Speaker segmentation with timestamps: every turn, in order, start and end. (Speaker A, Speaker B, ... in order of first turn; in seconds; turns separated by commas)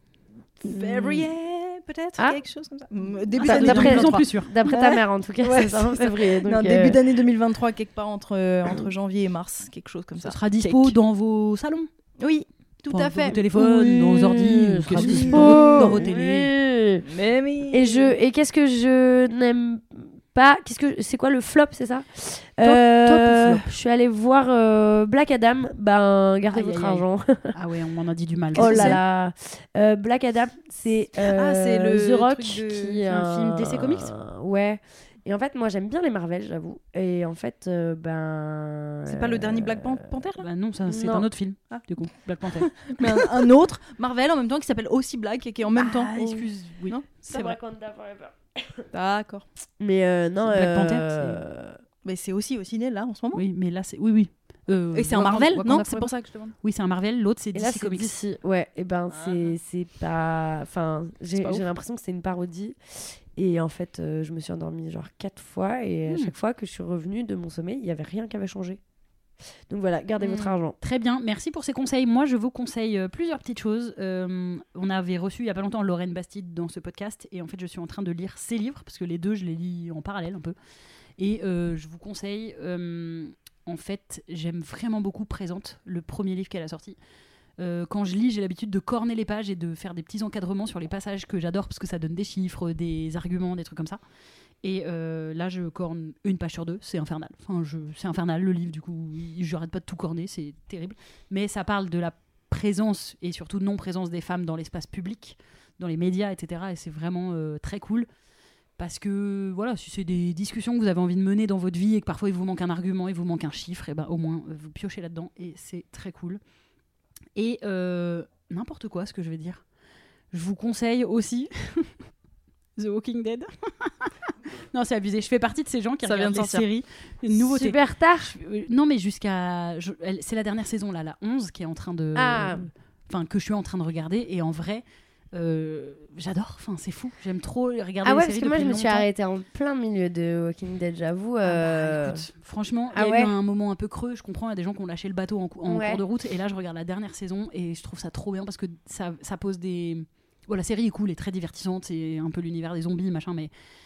Speaker A: 0.6-11.0, Speaker B: 0.7-1.3, Speaker B: 3.4-7.0, Speaker C: 3.4-4.5, Speaker C: 10.2-11.9, Speaker A: 12.2-13.5, Speaker C: 12.9-16.5, Speaker B: 13.5-17.0, Speaker A: 14.9-16.0, Speaker A: 17.0-18.1, Speaker B: 17.7-27.6, Speaker C: 22.6-23.7, Speaker C: 26.5-29.0, Speaker A: 28.5-29.0, Speaker B: 28.6-40.1, Speaker A: 31.2-33.0, Speaker C: 33.1-34.1, Speaker A: 39.1-40.5, Speaker C: 40.4-42.8, Speaker B: 40.9-41.3, Speaker A: 42.5-47.6, Speaker B: 45.8-46.5, Speaker C: 46.6-47.0, Speaker B: 47.2-48.9, Speaker A: 48.9-49.5, Speaker B: 49.8-51.8, Speaker C: 50.4-51.4, Speaker A: 52.0-53.4, Speaker C: 53.3-56.1, Speaker A: 54.9-56.5, Speaker C: 56.6-58.2, Speaker B: 57.5-68.8, Speaker A: 59.1-59.5, Speaker A: 61.3-61.7, Speaker A: 66.1-66.3, Speaker B: 69.7-70.8, Speaker A: 70.2-70.6, Speaker C: 70.8-80.5, Speaker C: 81.2-87.0, Speaker C: 87.6-94.0, Speaker C: 94.6-108.1, Speaker C: 108.8-116.4, Speaker C: 117.3-119.6, Speaker C: 120.3-122.0, Speaker C: 122.8-139.0, Speaker A: 126.0-126.7, Speaker B: 127.3-128.3, Speaker B: 132.2-132.7, Speaker B: 138.0-142.3, Speaker C: 141.4-153.5, Speaker B: 142.9-143.3, Speaker B: 145.7-146.0